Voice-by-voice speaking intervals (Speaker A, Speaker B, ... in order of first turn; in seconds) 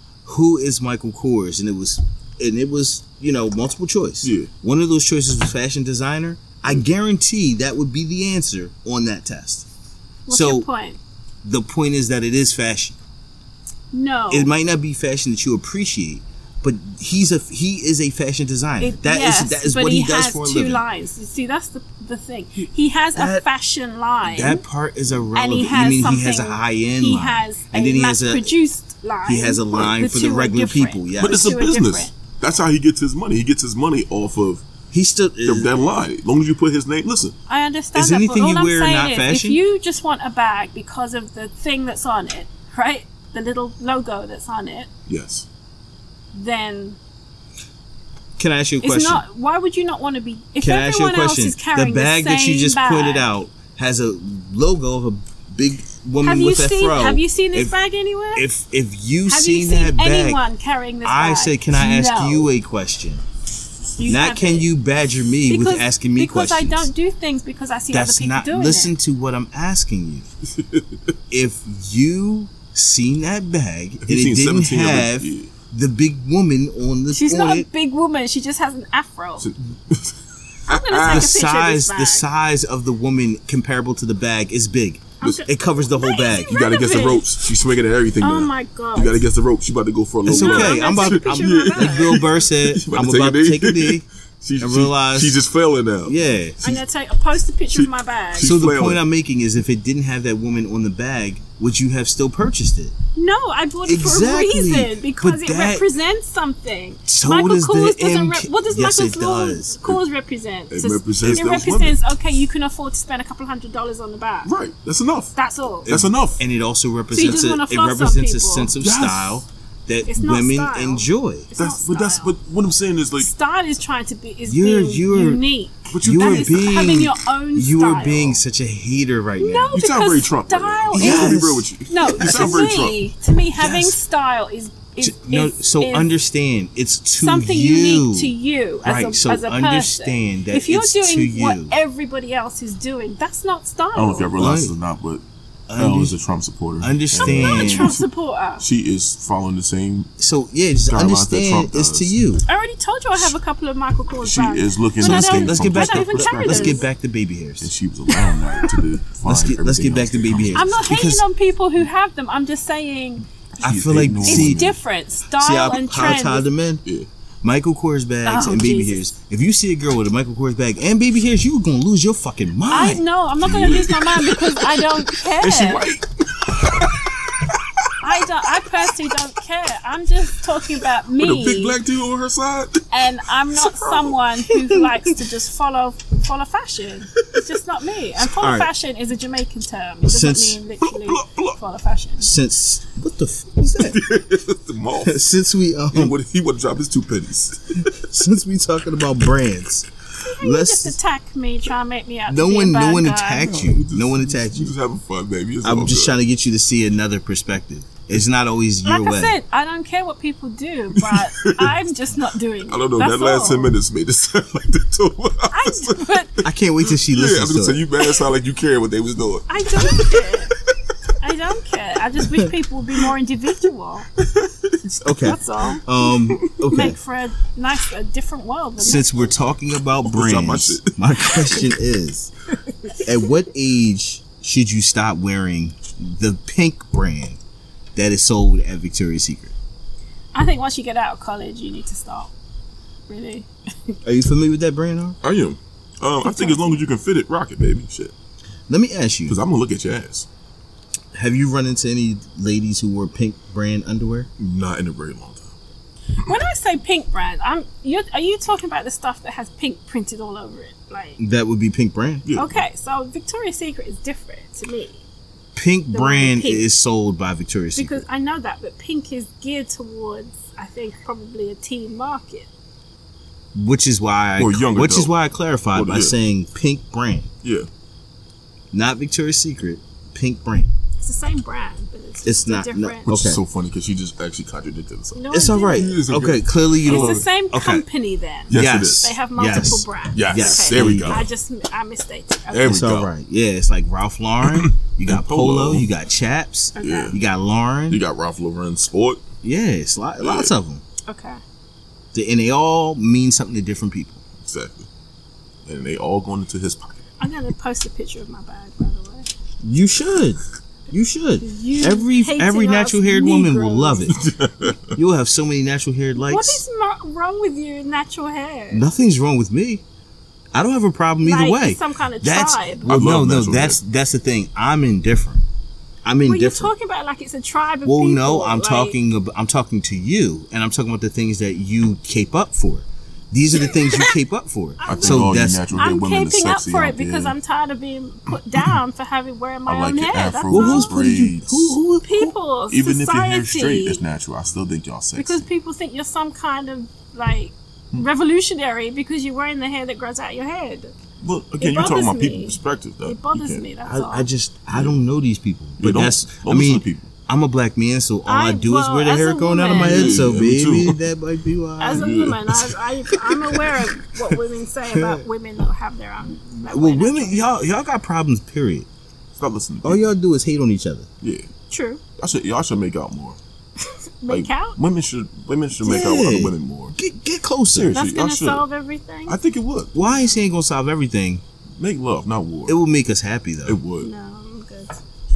Speaker A: 0.2-9.7, 10.3-10.7, 11.4-13.0, 14.3-20.8, 23.1-23.4, 24.2-28.6, 29.2-31.4, 34.9-35.7, 37.9-39.6, 48.4-49.2, 50.6-57.8, 58.3-60.4, 61.0-63.2, 64.0-66.9, 67.9-70.3, 71.3-77.7, 81.0-86.6, 90.2-94.0, 94.6-95.4, 96.0-96.6, 98.4-102.9, 103.8-105.8, 107.1-110.0, 111.3-111.7, 115.9-121.5, 124.5-125.4, 126.0-129.8, 130.9-132.7, 133.6-134.0, 135.0-141.8, 144.4-144.8, 145.7-146.2, 146.8-148.0, 150.2-152.4, 155.0-157.7, 159.2-161.2, 163.6-164.6, 165.4-166.8, 167.4-173.0, 184.5-185.1, 188.2-188.7, 190.1-190.6, 192.2-194.0, 195.0-196.2, 197.8-199.9, 200.4-201.0, 202.3-204.7, 205.6-209.4, 216.4-217.8, 225.0-227.0, 228.8-232.3, 233.0-237.4, 237.9-239.5, 244.0-245.2, 248.7-249.4, 251.1-254.3, 261.2-262.3, 265.6-268.0, 273.6-277.3, 278.7-280.7, 282.2-283.4, 285.3-287.9, 288.5-291.3, 292.6-298.0, 299.4-300.8, 302.1-304.2, 309.6-314.2, 314.9-316.6, 318.7-319.8, 320.5-325.4, 326.0-326.7, 327.9-335.7, 340.5-342.3, 353.9-362.1, 364.9-365.2, 366.7-368.9, 369.8-371.1, 375.8-378.0, 379.9-381.4, 382.7-383.8
Speaker B: 4.2-4.5, 31.2-34.6, 35.4-37.4, 45.1-45.5, 70.6-70.9, 74.0-75.5, 79.4-81.3, 86.5-96.8, 97.7-99.0, 110.7-112.0, 114.5-116.4, 118.8-119.4, 121.6-123.3, 125.9-126.9, 129.7-133.0, 143.9-145.2, 145.8-148.1, 148.6-150.1, 150.9-152.2, 154.2-156.9, 157.6-160.8, 163.6-164.8, 173.4-177.9, 181.1-182.9, 183.5-184.2, 190.8-191.6, 193.8-195.2, 195.9-197.9, 203.4-206.2, 210.9-211.7, 212.7-216.2, 216.8-220.1, 224.2-225.1, 226.3-226.6, 230.0-231.7, 245.2-248.1, 249.3-250.3, 254.4-255.6, 262.2-262.6, 274.4-275.1, 275.7-276.2, 277.4-277.7, 283.1-287.2, 288.5-289.1, 290.1-291.3, 292.5-293.1, 294.4-295.9, 296.8-297.2, 297.9-299.2, 300.2-300.5, 304.4-304.9, 305.7-307.0, 314.1-314.9, 322.9-323.8, 334.9-337.4, 339.7-341.8, 342.7-345.5, 351.2-353.6, 354.7-355.0, 355.8-357.1, 359.7-361.0, 361.9-363.8, 369.4-370.1, 371.2-371.5, 372.2-373.4, 374.3-377.0, 377.7-378.6, 379.3-379.9, 381.8-382.8, 383.7-384.1
Speaker C: 10.3-11.0, 13.9-14.5, 18.8-24.6, 25.3-32.1, 37.5-44.9, 46.3-47.0, 48.8-53.3, 56.2-58.5, 59.3-62.5, 64.0-64.7, 65.5-69.0, 77.1-79.5, 80.7-82.3, 85.2-87.3, 88.2-89.3, 90.3-92.3, 96.6-98.5, 103.2-114.5, 115.4-115.9, 117.1-118.7, 120.1-122.3, 123.2-128.3, 129.4-136.1, 137.2-144.4, 147.2-148.6, 152.5-156.9, 158.1-158.8, 160.5-163.3, 164.2-166.5, 168.2-169.1, 172.7-175.9, 178.0-181.8, 182.9-192.3, 200.2-203.6, 208.8-213.7, 215.5-216.4, 219.5-220.5, 221.2-224.1, 225.2-225.8, 226.7-229.3, 240.3-242.3, 243.1-244.0, 246.2-246.8, 256.2-261.2, 262.4-265.0, 265.9-266.7, 267.8-272.5, 281.0-283.1, 285.1-285.9, 286.8-292.8, 296.8-297.2, 301.1-301.4, 307.2-309.3, 311.4-314.1, 316.2-318.9, 321.2-322.9, 326.2-329.0, 333.7-334.2, 334.8-341.0, 342.0-344.0, 345.2-350.9, 351.6-354.3, 358.3-360.2, 361.8-367.5, 371.7-372.0, 373.8-374.8, 377.9-379.4, 380.0-380.5, 384.0-385.0